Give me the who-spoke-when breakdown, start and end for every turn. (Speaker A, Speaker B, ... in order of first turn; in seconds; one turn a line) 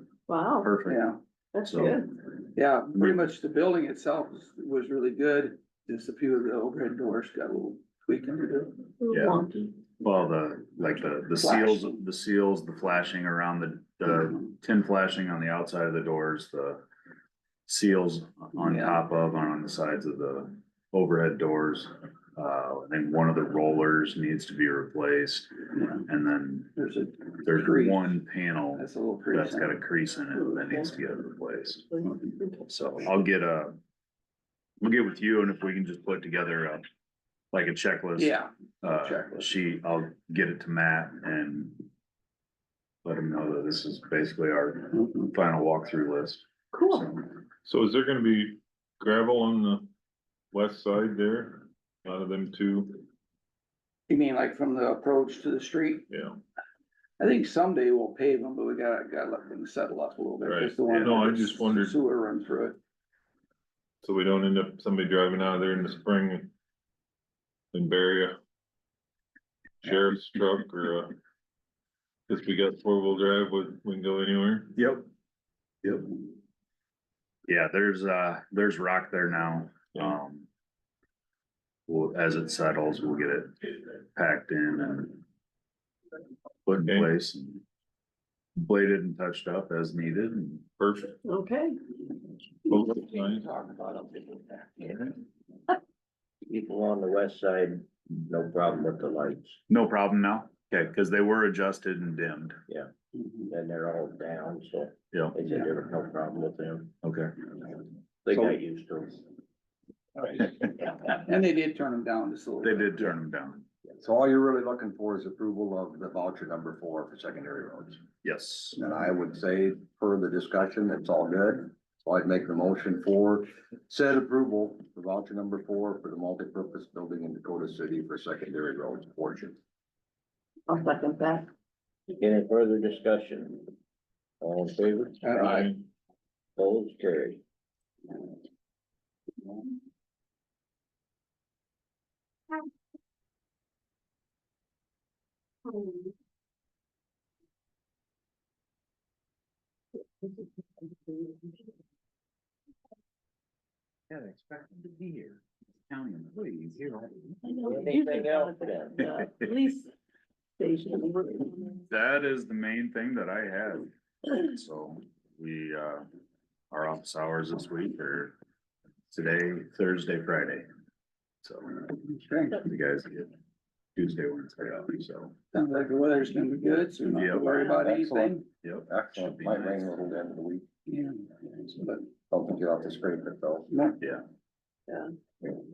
Speaker A: 0.3-0.7
Speaker B: 0.6-1.0
Speaker C: 0.9-1.2
Speaker A: 1.5-2.0
Speaker B: 1.6-2.1
Speaker C: 2.5-8.8
Speaker B: 2.9-3.3
Speaker A: 9.0-9.7
Speaker B: 9.1-16.8
Speaker C: 11.4-12.0
Speaker B: 17.7-26.7
Speaker C: 18.6-19.0
Speaker C: 26.8-28.1
Speaker B: 27.4-32.0
Speaker C: 28.7-29.8
Speaker A: 30.4-30.8
Speaker B: 32.6-33.8
Speaker B: 34.8-36.8
Speaker B: 37.5-41.9
Speaker C: 38.2-39.5
Speaker B: 43.0-47.3
Speaker C: 45.0-45.3
Speaker A: 46.7-47.0
Speaker D: 47.6-49.9
Speaker D: 50.5-53.0
Speaker C: 54.1-56.0
Speaker D: 56.1-56.4
Speaker C: 57.2-62.8
Speaker D: 60.4-61.9
Speaker B: 60.9-61.1
Speaker D: 64.0-66.5
Speaker D: 67.7-68.4
Speaker D: 69.8-71.2
Speaker D: 72.3-74.7
Speaker B: 74.7-75.1
Speaker B: 75.8-76.2
Speaker B: 77.5-80.5
Speaker B: 81.9-85.2
Speaker B: 86.7-87.6
Speaker D: 86.8-87.1
Speaker B: 88.6-91.1
Speaker A: 91.2-91.8
Speaker D: 92.7-93.4
Speaker C: 93.4-94.8
Speaker E: 96.4-99.6
Speaker B: 99.7-102.6
Speaker E: 103.5-106.9
Speaker B: 105.1-105.4
Speaker B: 107.0-107.4
Speaker E: 108.2-109.2
Speaker C: 111.2-113.1
Speaker B: 112.6-113.7
Speaker F: 114.0-118.1
Speaker B: 118.2-118.8
Speaker F: 118.7-129.6
Speaker A: 130.7-131.5
Speaker E: 132.1-133.7
Speaker E: 134.4-135.8
Speaker D: 135.3-135.7
Speaker E: 136.6-137.4
Speaker B: 154.1-157.5
Speaker A: 157.5-159.9
Speaker E: 157.6-159.1
Speaker B: 159.0-159.5
Speaker A: 160.6-161.8
Speaker B: 161.9-166.1
Speaker B: 166.7-168.3
Speaker B: 169.1-170.7
Speaker B: 171.4-171.9
Speaker C: 172.1-172.6
Speaker B: 172.6-173.3
Speaker B: 173.9-175.3
Speaker C: 175.5-178.5
Speaker B: 177.1-177.6
Speaker F: 177.8-180.6
Speaker B: 178.6-180.1
Speaker C: 180.9-182.1
Speaker F: 182.3-183.7
Speaker B: 184.0-184.2